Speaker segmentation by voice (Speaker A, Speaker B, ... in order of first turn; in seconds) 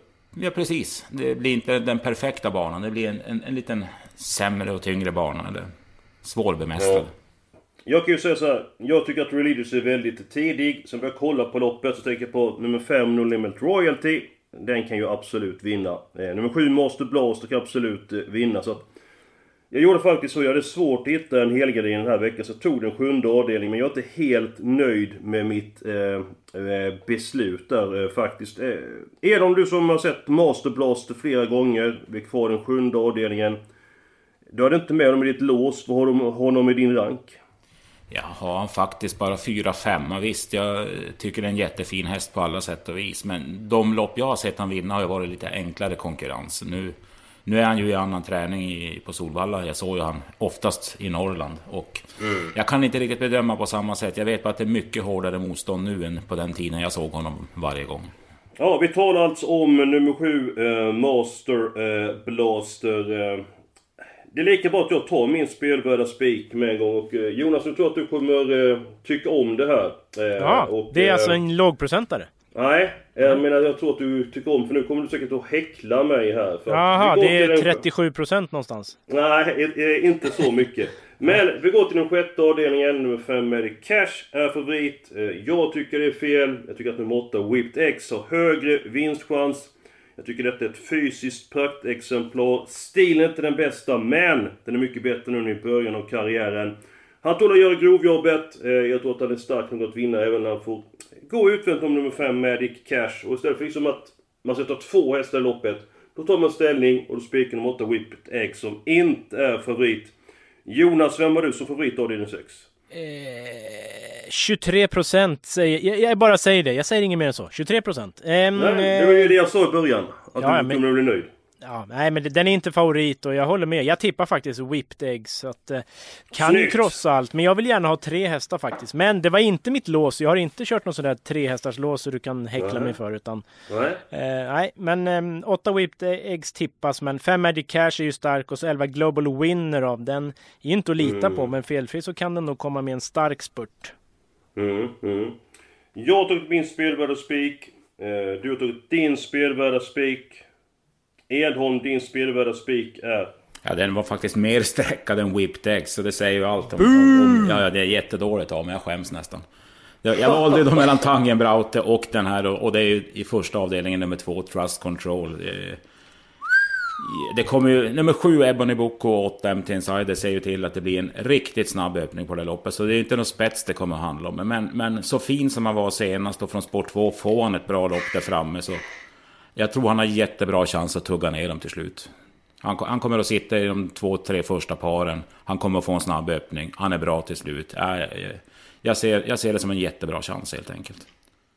Speaker A: 0.3-5.7, 6.2-7.1, 38.1-58.1, 153.6-159.4, 160.0-165.8, 167.0-178.8, 179.6-182.1, 182.6-191.1
Speaker B: 6.8-7.0, 7.8-18.8, 19.7-33.6, 34.5-37.4, 58.6-63.4, 64.3-71.4, 72.5-77.8, 79.1-110.1, 110.7-112.7, 118.5-121.3, 126.3-127.0, 132.6-133.0, 133.7-134.0, 141.0-141.5, 144.6-145.4, 145.9-150.4, 151.3-153.3
Speaker C: 70.4-72.3, 76.7-79.0, 112.9-119.3, 120.4-120.8, 121.6-133.4, 134.1-143.9, 156.8-157.6